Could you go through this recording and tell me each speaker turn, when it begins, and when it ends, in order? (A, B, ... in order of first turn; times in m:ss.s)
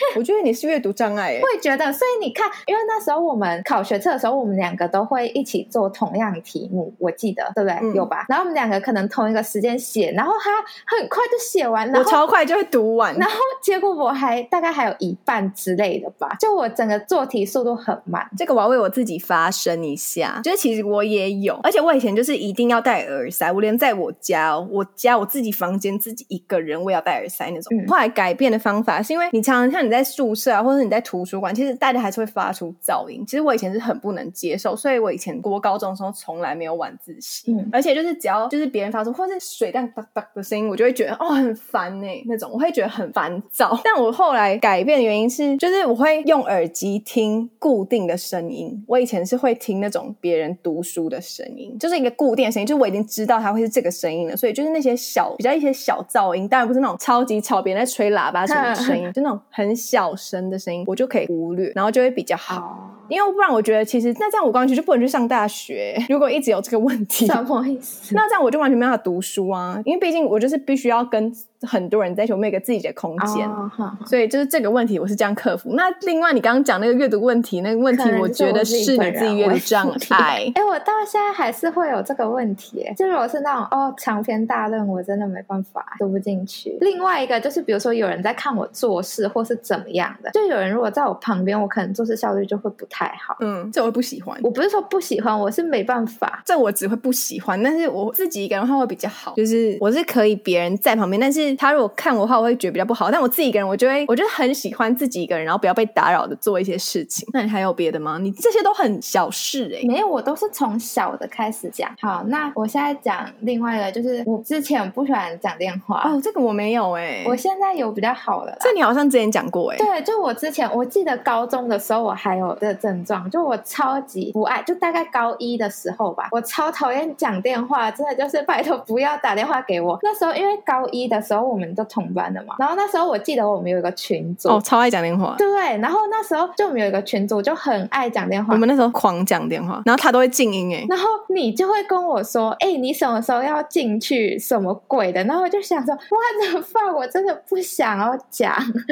0:00.1-0:01.5 A
0:01.4-0:12.2 B
0:07.8-0:08.1 A
0:11.9-0:13.3 A
0:13.1-0:18.3 B
0:18.4-1:02.6 A
0:37.5-0:37.7 B
0:58.5-0:59.1 B
1:02.5-1:03.1 B
1:03.1-1:07.4 A
1:07.2-1:08.2 B
1:08.1-1:13.6 A
1:13.2-1:14.1 B
1:14.1-1:20.5 A
1:17.9-1:33.4 B
1:33.4-1:34.4 A
1:34.4-1:36.4 B
1:36.4-1:49.9 A
1:49.8-1:56.2 B
1:56.0-1:57.4 A
1:57.2-1:58.7 B
1:58.6-1:59.9 A
1:59.8-2:14.6 B
2:14.5-2:15.4 A
2:15.4-2:18.6 B
2:18.5-2:20.9 A
2:20.9-2:28.6 B